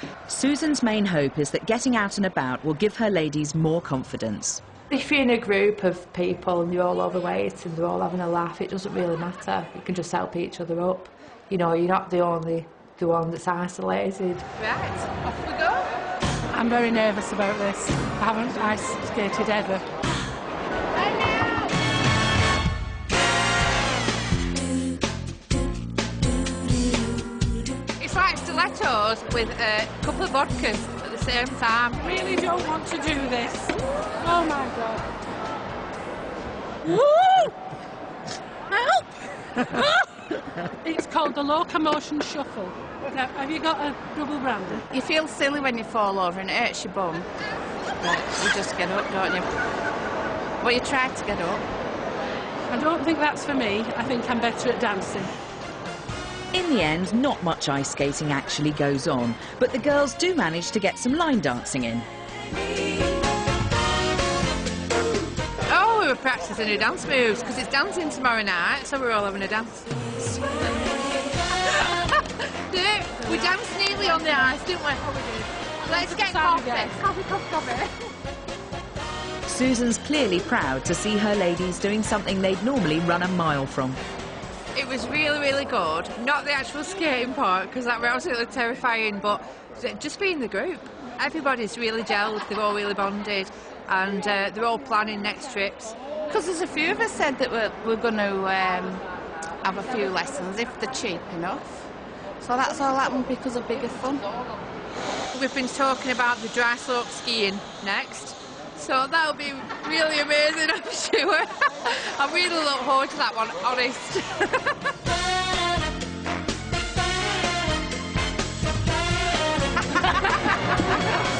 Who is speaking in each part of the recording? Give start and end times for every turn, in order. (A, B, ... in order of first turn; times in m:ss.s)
0:00.3-0:04.6 A
0:04.9-0:14.4 B
0:14.6-0:15.9 C
0:16.5-0:19.8 D
0:21.2-0:21.6 C
0:28.0-0:32.0 C
0:32.0-0:35.0 D
0:36.8-0:37.5 D
0:38.7-0:40.0 D
0:40.8-0:44.8 D
0:44.9-0:47.3 E
0:48.0-0:49.5 E
0:50.6-0:51.6 E
0:52.7-0:55.3 D
0:56.5-1:02.1 A
1:05.7-1:10.4 C
1:11.6-1:17.9 C
1:13.2-1:15.3 D
1:15.8-1:17.0 D
1:19.5-1:24.0 A
1:24.7-1:35.9 C
1:36.3-1:39.1 E
1:39.6-1:41.9 E
1:42.4-1:44.3 E
1:45.3-1:54.7 C